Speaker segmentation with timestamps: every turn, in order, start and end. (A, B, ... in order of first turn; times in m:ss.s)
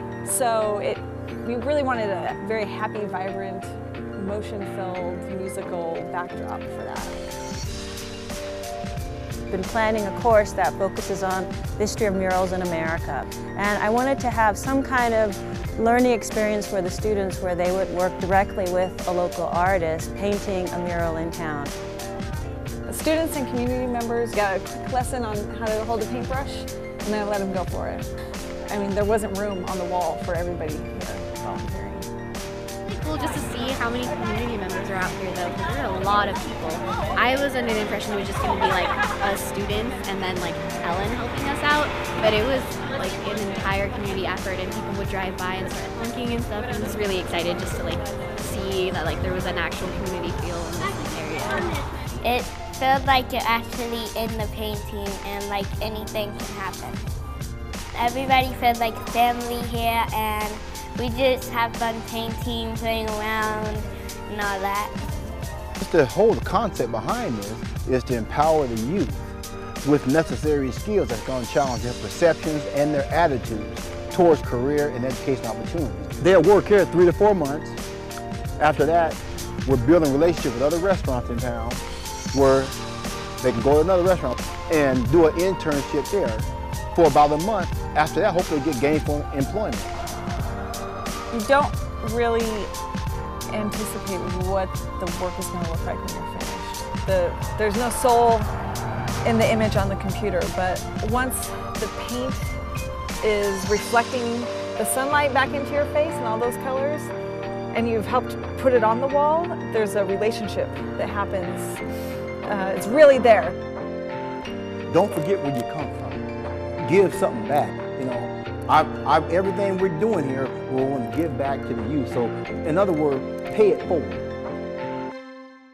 0:00.2-0:07.2 A
0:09.5-0:21.8 B
0:22.9-0:28.1 A
0:28.7-0:32.1 A
0:32.8-0:51.8 C
0:52.2-0:57.0 D
0:57.9-1:05.1 D
1:05.8-1:09.3 E
1:09.8-1:17.8 E
1:18.6-1:21.8 E
1:22.3-1:22.7 E
1:23.4-1:29.9 E
1:31.3-1:32.7 A
1:33.5-1:38.5 A
1:39.2-1:42.6 A
1:43.2-1:47.1 A
1:47.7-1:51.8 A
1:52.4-1:53.6 A
1:54.9-1:56.2 E
1:56.8-2:04.2 E